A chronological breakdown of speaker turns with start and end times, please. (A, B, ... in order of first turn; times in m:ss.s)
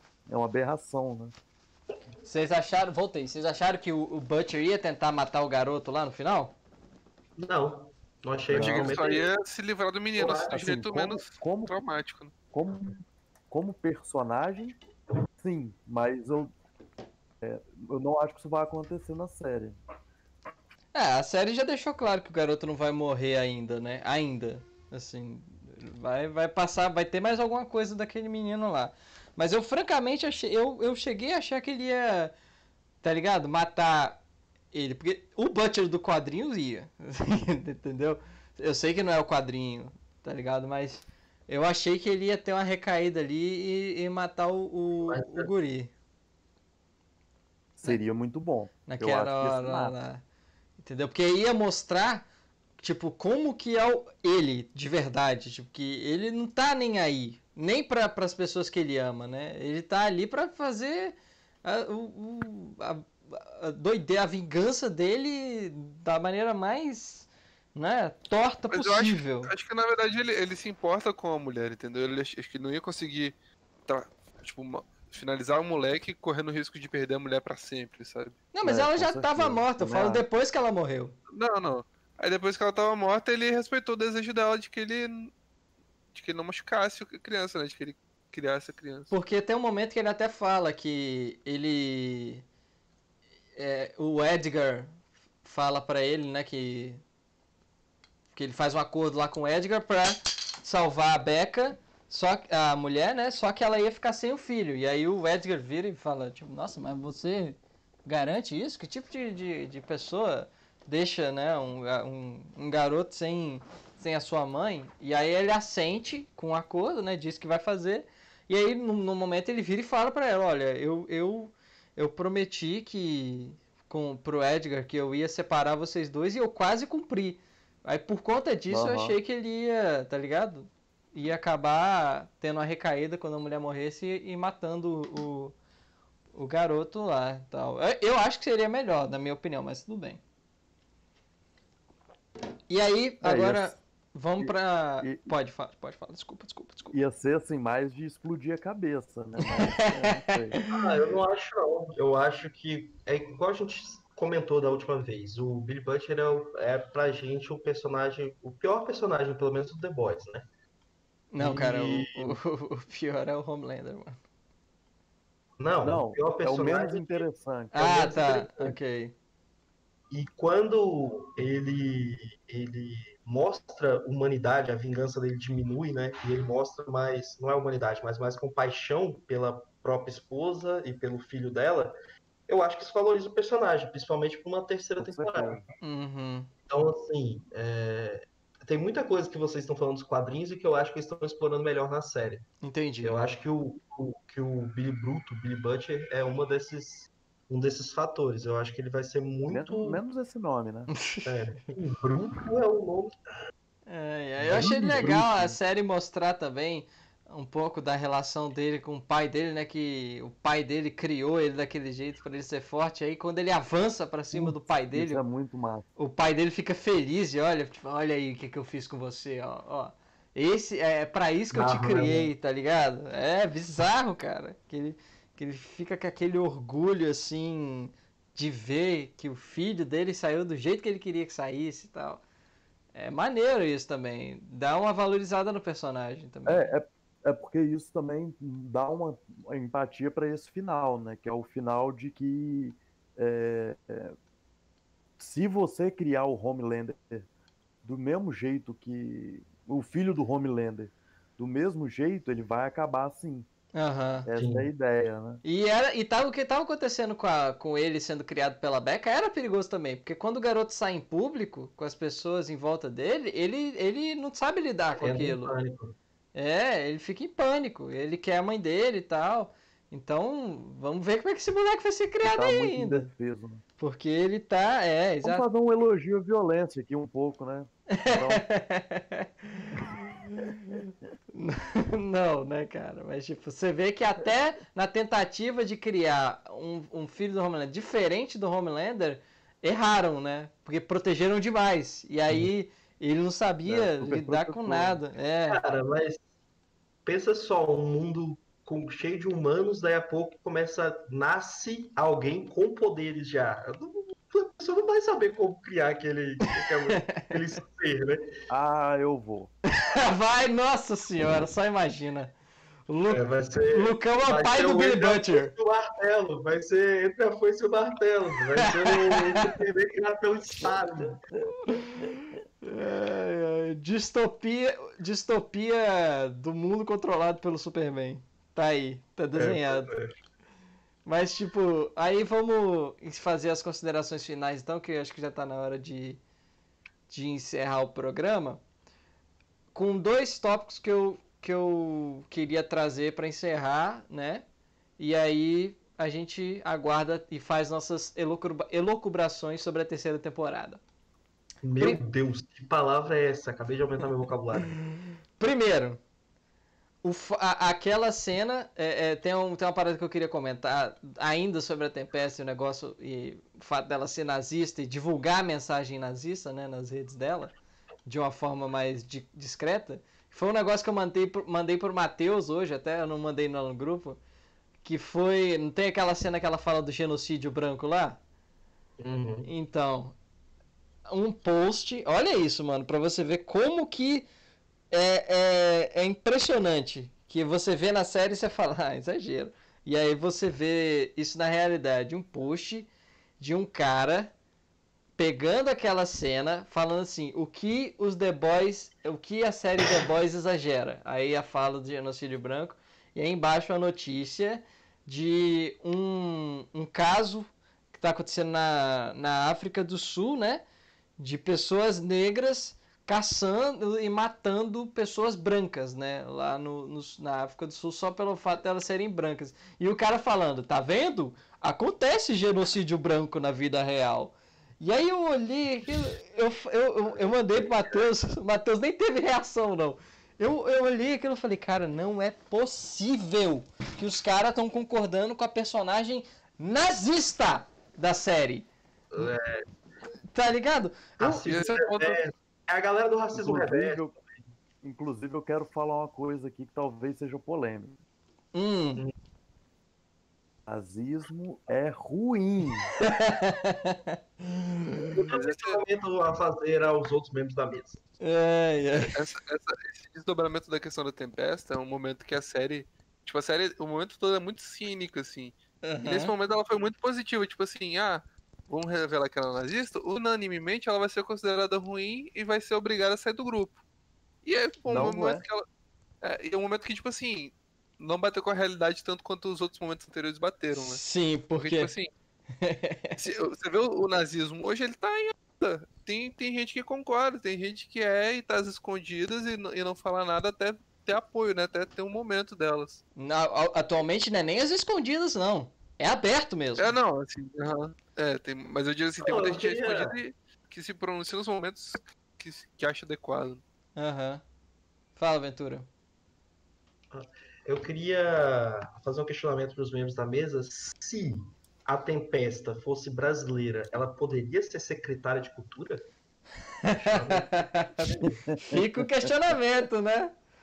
0:00.3-0:01.3 A
0:02.2-0:06.5 B
0:07.4-0:09.3 C
0:08.5-0:09.0 A
0:08.5-0:12.3 D
0:10.2-0:10.5 C
0:10.2-0:11.7 A
0:12.5-0:14.8 A
0:15.3-0:16.5 A
0:17.4-0:19.8 A
0:20.9-0:32.3 B
0:33.0-0:34.2 B
0:34.7-0:45.9 B
0:45.1-0:45.5 C
0:47.8-0:49.9 A
0:48.8-0:50.2 B
0:50.8-0:52.2 B
0:52.8-1:09.5 B
1:08.7-1:13.4 D
1:13.9-1:18.4 D
1:18.5-1:21.1 B
1:18.6-1:20.2 A
1:21.3-1:25.3 D
1:26.1-1:29.1 D
1:29.1-1:32.4 B
1:33.6-1:34.9 B
1:35.4-1:37.0 B
1:38.3-2:15.5 B
2:08.7-2:09.2 A
2:16.3-2:20.2 B
2:22.7-2:27.0 B
2:23.2-2:23.7 A
2:24.4-2:25.3 A
2:26.9-2:30.6 A
2:29.4-2:30.8 B
2:30.7-2:40.4 C
2:41.3-2:44.2 B
2:41.4-2:42.4 C
2:45.6-2:47.2 C
2:45.8-2:48.8 A
2:47.7-2:49.1 B
2:50.1-3:01.9 C
3:02.5-3:05.6 C
3:05.0-3:05.6 A
3:05.8-3:06.5 B
3:06.7-3:12.5 C
3:12.6-3:13.1 B
3:13.0-3:20.0 C
3:19.5-3:20.9 A
3:21.0-3:21.3 B
3:21.2-3:23.1 C
3:23.9-3:35.2 B
3:24.4-3:25.6 A
3:34.3-3:35.9 A
3:36.0-3:52.2 B
3:41.5-3:42.3 C
3:52.9-3:56.7 B
3:56.4-4:04.1 A
4:05.2-4:07.3 A
4:07.8-4:13.5 A
4:13.7-4:14.3 B
4:14.2-4:15.4 A
4:14.3-4:14.7 C
4:15.4-4:25.5 B
4:25.0-4:25.9 C
4:26.3-4:33.1 B
4:32.2-4:33.6 A
4:33.8-4:35.4 B
4:35.2-4:38.4 A
4:37.9-4:55.6 B
4:53.6-4:55.0 A
4:55.5-4:56.2 C
4:57.0-5:08.2 C
5:07.0-5:07.4 B
5:08.5-5:09.5 A
5:09.7-5:12.3 B
5:12.9-5:15.5 B
5:13.1-5:21.2 C
5:18.6-5:19.5 B
5:21.6-5:29.9 B
5:29.3-5:30.2 C
5:31.0-5:36.2 B
5:37.1-5:38.6 B
5:39.7-5:44.4 B
5:45.0-5:50.8 B
5:51.6-5:54.7 C
5:55.4-5:56.0 B
5:57.0-6:07.5 B
6:08.0-6:14.2 B
6:14.8-6:18.2 B
6:19.0-6:19.5 C
6:19.4-6:20.2 B
6:21.1-6:24.3 B
6:24.9-6:34.3 B
6:35.2-6:50.6 B
6:51.2-7:18.7 B
7:19.1-7:19.6 C
7:20.3-7:21.4 B
7:21.2-7:24.2 C
7:21.4-7:22.2 D
7:23.3-7:24.2 A
7:24.8-7:28.0 A
7:28.5-7:29.0 B
7:30.7-7:33.0 A
7:33.0-7:35.2 B
7:35.1-7:38.0 C
7:35.3-7:35.8 D
7:38.2-7:39.2 B
7:39.1-7:53.8 D
7:45.8-7:46.3 B
7:54.4-7:55.6 D
7:54.9-7:55.4 A
7:56.2-8:01.0 D
8:00.7-8:01.9 B
8:01.6-8:02.1 D
8:02.6-8:03.2 B
8:03.2-8:13.0 D
8:13.2-8:17.0 B
8:16.8-8:23.6 D
8:19.2-8:20.2 C
8:24.0-8:24.4 B
8:25.2-8:25.9 B
8:27.1-8:36.0 C
8:36.8-8:40.3 B
8:36.9-8:37.7 C
8:38.5-8:38.8 A